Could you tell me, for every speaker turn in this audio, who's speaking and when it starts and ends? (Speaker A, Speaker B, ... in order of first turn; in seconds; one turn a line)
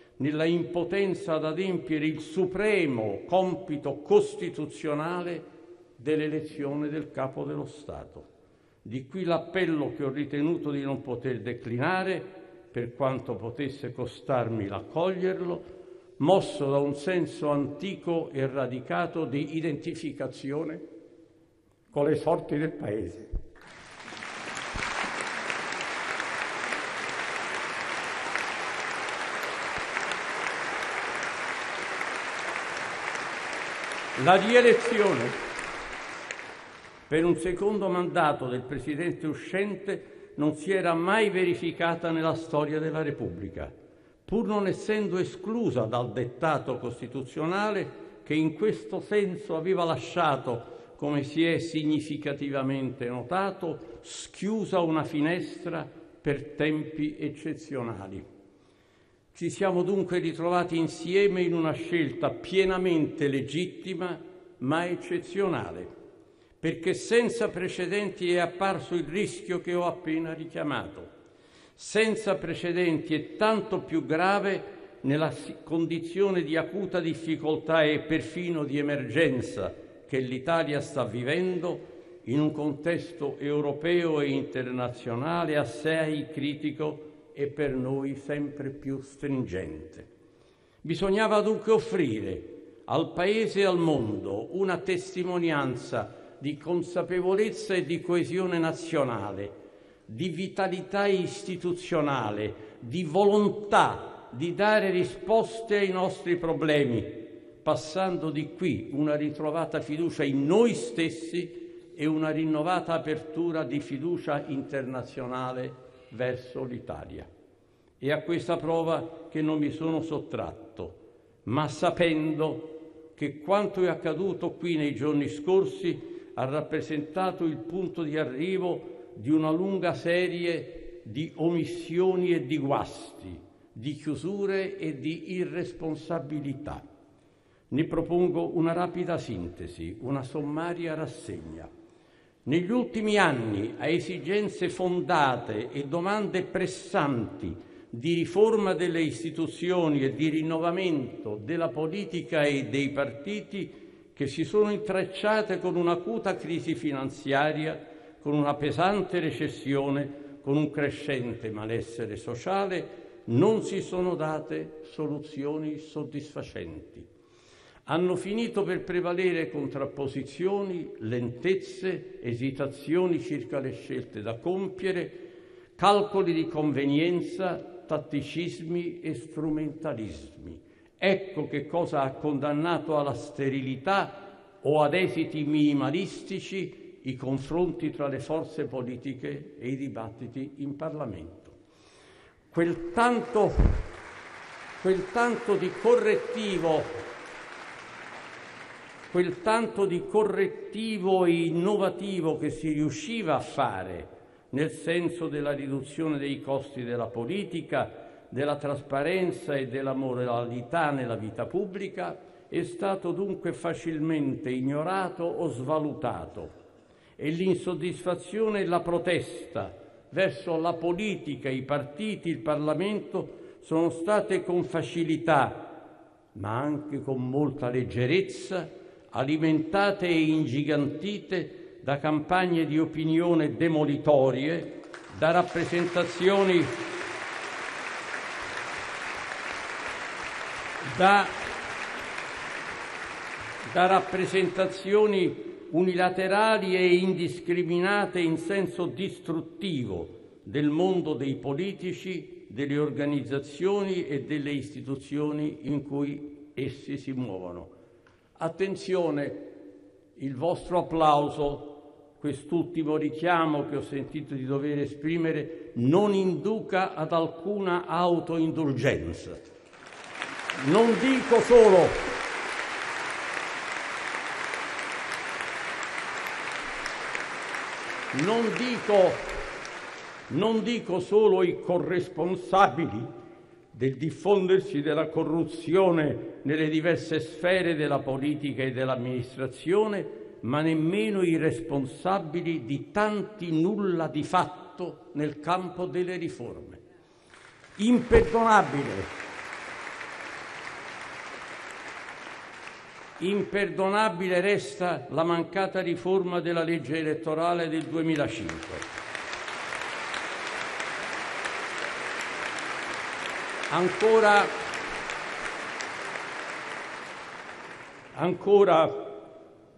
Speaker A: 0.2-5.5
Speaker A: 6.0-8.3
Speaker A: 8.8-15.7
Speaker A: 16.2-20.8
Speaker A: 21.9-23.3
Speaker A: 34.1-35.4
Speaker A: 37.1-43.7
Speaker A: 44.3-58.2
Speaker A: 59.3-65.9
Speaker A: 66.6-71.1
Speaker A: 71.8-90.1
Speaker A: 90.8-99.5
Speaker A: 100.1-117.3
Speaker A: 118.0-136.8
Speaker A: 137.7-141.7
Speaker A: 142.4-167.1
Speaker A: 167.8-191.6
Speaker A: 192.5-193.9
Speaker A: 194.8-197.0
Speaker A: 199.1-216.5
Speaker A: 217.2-225.8
Speaker A: 226.3-236.8
Speaker A: 240.8-241.3
Speaker A: 243.7-257.7
Speaker A: 258.4-259.6
Speaker A: 260.1-269.4
Speaker A: 270.6-272.1
Speaker A: 278.1-279.4
Speaker A: 280.3-283.1
Speaker A: 283.7-296.8
Speaker A: 297.8-299.1
Speaker A: 303.2-308.8
Speaker A: 313.7-314.5
Speaker A: 318.1-319.3